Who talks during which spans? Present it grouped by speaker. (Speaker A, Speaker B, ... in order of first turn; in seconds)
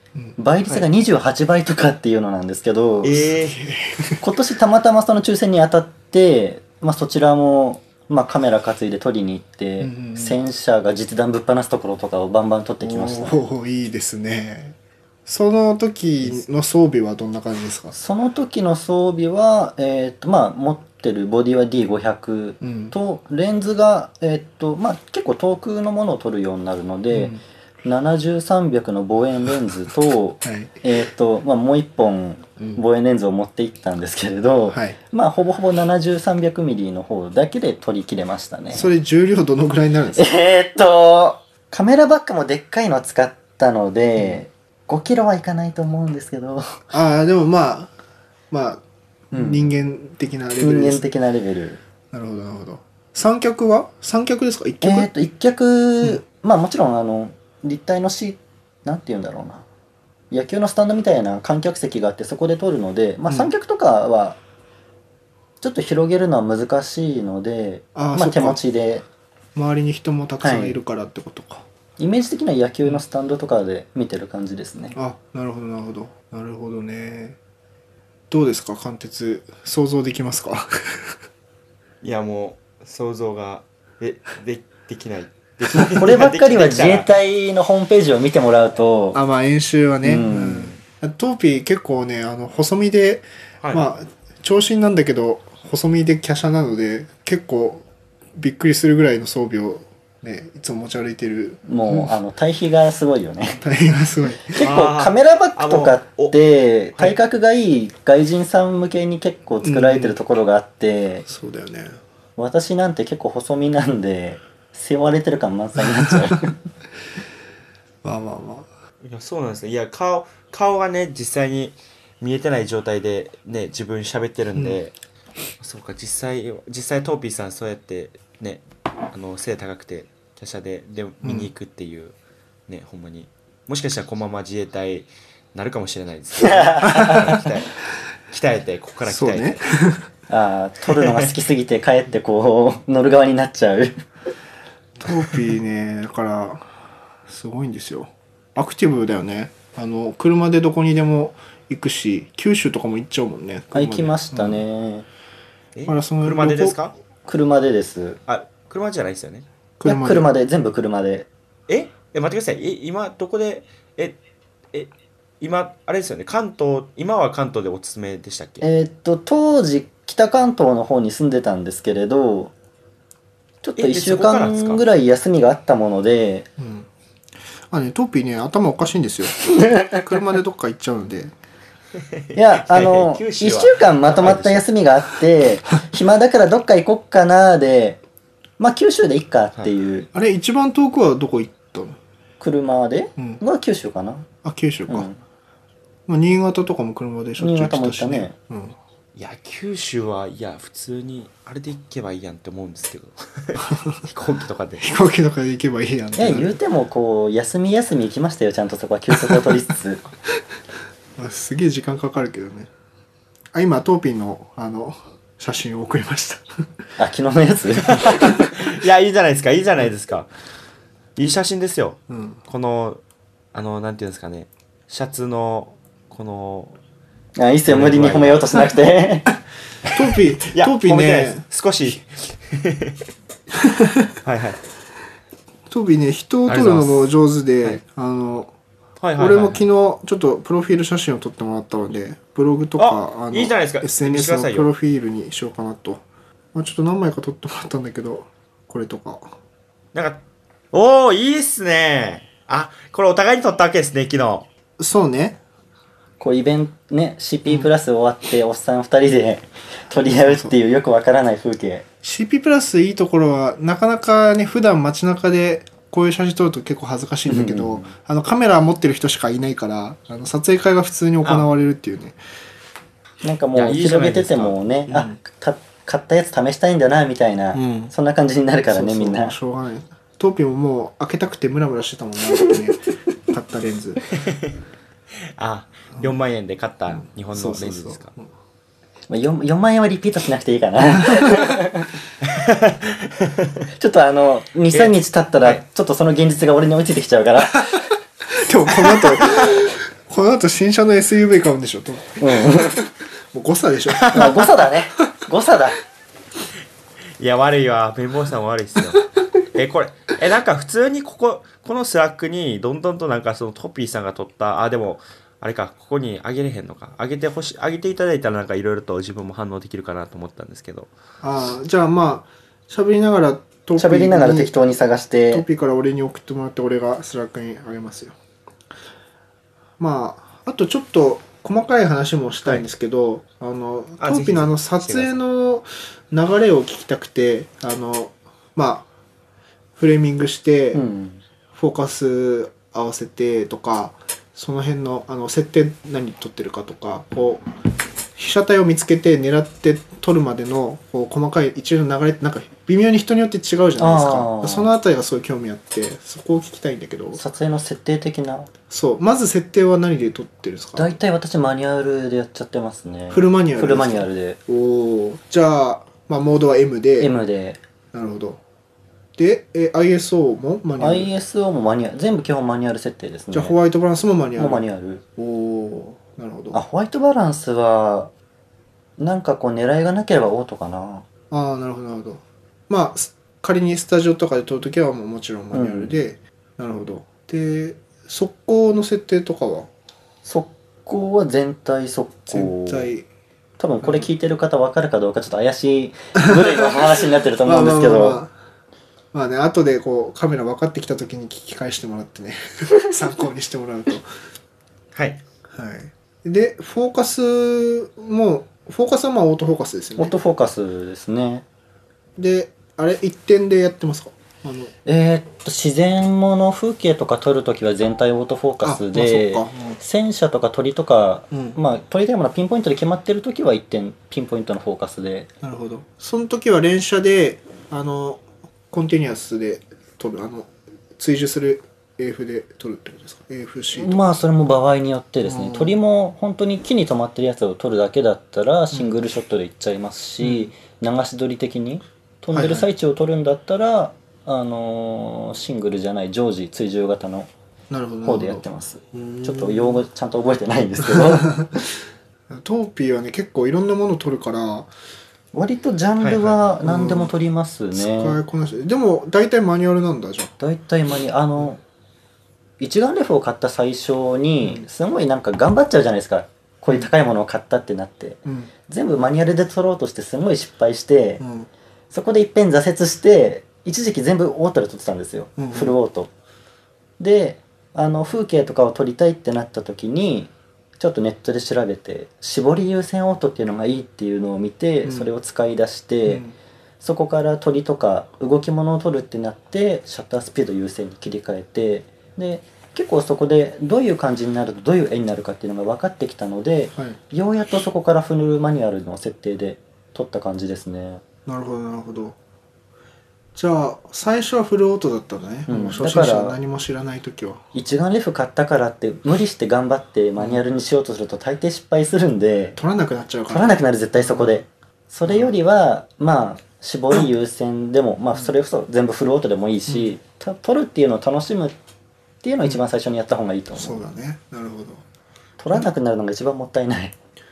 Speaker A: 0.4-3.2, 4.2-13.4, 17.9-38.9, 40.1-46.9, 49.3-49.7, 50.6-51.8, 54.8-59.6, 60.3-64.4, 65.6-69.0, 70.4-70.8, 72.0-75.0, 85.9-89.2, 90.0-90.8, 101.7-103.6, 104.5-111.3, 112.4-116.5, 136.4-137.4, 140.3-144.0, 153.7-155.1, 157.3-158.2, 159.8-161.3, 168.6-172.5, 173.6-176.5, 179.5-180.0, 182.3-188.0, 188.6-190.1, 192.4-194.3, 194.9-195.2, 197.4-198.3, 206.2-210.0, 217.0-218.4, 227.4-229.3, 256.2-261.8, 267.3-267.9, 273.2-279.3, 289.1-291.9, 293.8-297.8, 302.2-302.9, 304.1-305.8, 323.8-325.4, 340.7-341.2, 353.8-354.7, 357.1-358.5, 360.8-364.4, 367.0-367.6, 370.8-373.6, 374.4-375.0, 376.5-378.1, 379.0-381.0, 385.5-386.0, 390.2-392.9, 393.6-398.2, 410.0-411.4, 414.9-425.3, 433.7-447.3, 448.0-451.4, 455.3-458.2, 460.4-461.6, 462.6-471.2, 471.9-476.1, 477.0-486.2, 486.8-501.0, 505.5-506.4, 507.5-512.6, 513.3-521.5, 522.2-523.8, 525.4-526.9
Speaker B: 3.0-3.6, 82.0-87.1, 93.6-93.9, 104.6-106.4, 119.0-124.9, 125.6-132.1, 132.7-137.7, 138.3-139.6, 141.0-141.2, 155.7-156.9, 158.3-159.5, 161.7-164.2, 164.7-168.6, 173.8-174.8, 182.6-184.6, 199.2-205.0, 217.9-220.3, 221.2-223.0, 223.5-226.8, 227.7-228.7, 230.5-233.0, 234.2-234.6, 236.5-237.1, 239.0-239.6, 242.8-244.7, 249.9-250.2, 250.7-254.5, 273.5-274.6, 285.4-288.1, 292.2-293.6, 294.7-295.6, 303.9-304.4, 307.2-320.9, 334.0-335.1, 404.9-405.2, 456.0-456.4
Speaker C: 3.4-4.2, 9.8-10.4, 12.8-17.9, 22.6-22.9, 27.1-27.4, 30.4-30.8, 34.7-35.0, 38.7-40.3, 46.9-47.9, 48.5-51.0, 52.1-55.1, 67.9-68.6, 69.5-71.6, 74.9-77.4, 78.3-81.1, 89.1-97.8, 98.3-102.1, 103.6-104.6, 109.6-110.2, 111.3-112.0, 118.0-118.7, 131.2-131.5, 136.9-137.4, 139.1-140.0, 145.0-146.7, 147.2-154.6, 155.8-156.8, 159.8-160.3, 176.6-176.9, 177.7-181.3, 190.1-192.0, 194.4-195.1, 196.1-198.8, 203.6-204.0, 204.8-206.6, 209.2-209.5, 211.2-212.7, 213.5-216.4, 222.1-222.4, 229.9-231.4, 233.6-234.1, 235.7-238.5, 239.2-249.3, 254.8-255.4, 260.1-260.5, 262.0-272.2, 274.9-275.2, 277.5-277.9, 278.7-284.0, 287.0-288.2, 291.0-291.5, 298.3-304.5, 321.2-324.5, 325.3-328.1, 329.8-338.9, 339.8-340.8, 341.5-347.4, 348.1-357.2, 358.7-360.9, 363.1-367.1, 367.9-368.4, 369.2-371.1, 373.3-374.6, 375.2-376.6, 381.3-389.7, 392.3-393.1, 396.2-398.3, 399.1-404.1, 405.5-410.1, 412.2-414.7, 418.6-419.8, 421.3-421.6, 425.4-434.0, 435.2-435.8, 438.7-439.0, 440.2-440.5, 442.3-442.7, 447.7-449.8, 450.8-451.6, 452.3-454.7, 456.6-457.1, 457.7-460.3, 468.2-468.5, 471.2-471.5, 475.4-475.8, 484.8-485.1, 486.1-486.3, 501.2-502.1, 503.3-507.4, 510.2-510.4, 512.5-514.4, 515.1-515.3, 519.7-519.9, 523.5-524.8